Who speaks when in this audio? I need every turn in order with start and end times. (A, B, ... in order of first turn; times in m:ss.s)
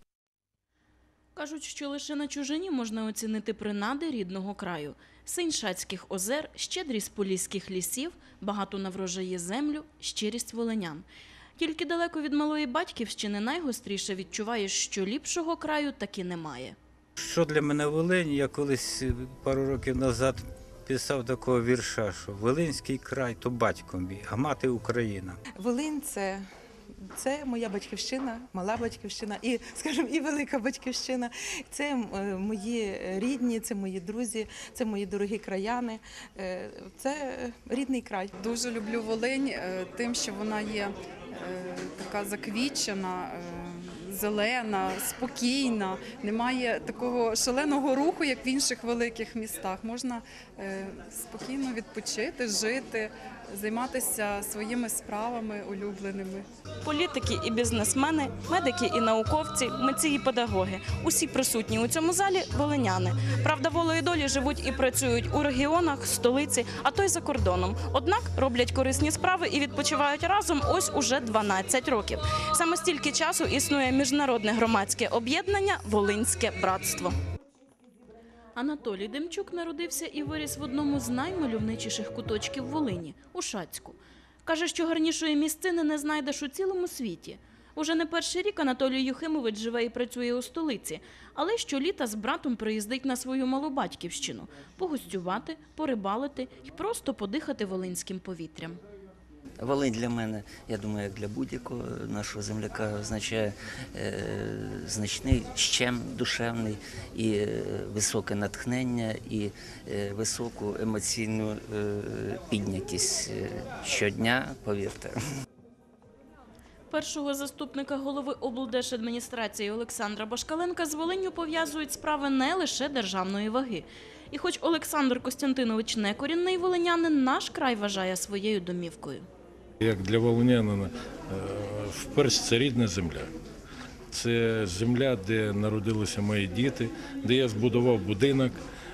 0:01.3-0:11.0 A
0:11.6-0:16.8 A
0:17.2-0:25.4 B
0:25.5-0:26.4 C
0:27.1-0:38.3 C
0:38.4-0:56.4 D
0:56.8-1:17.1 A
1:18.6-1:38.8 A
1:39.6-1:55.2 E
1:56.9-2:09.2 A
2:09.8-2:13.3 F
2:14.1-2:18.6 F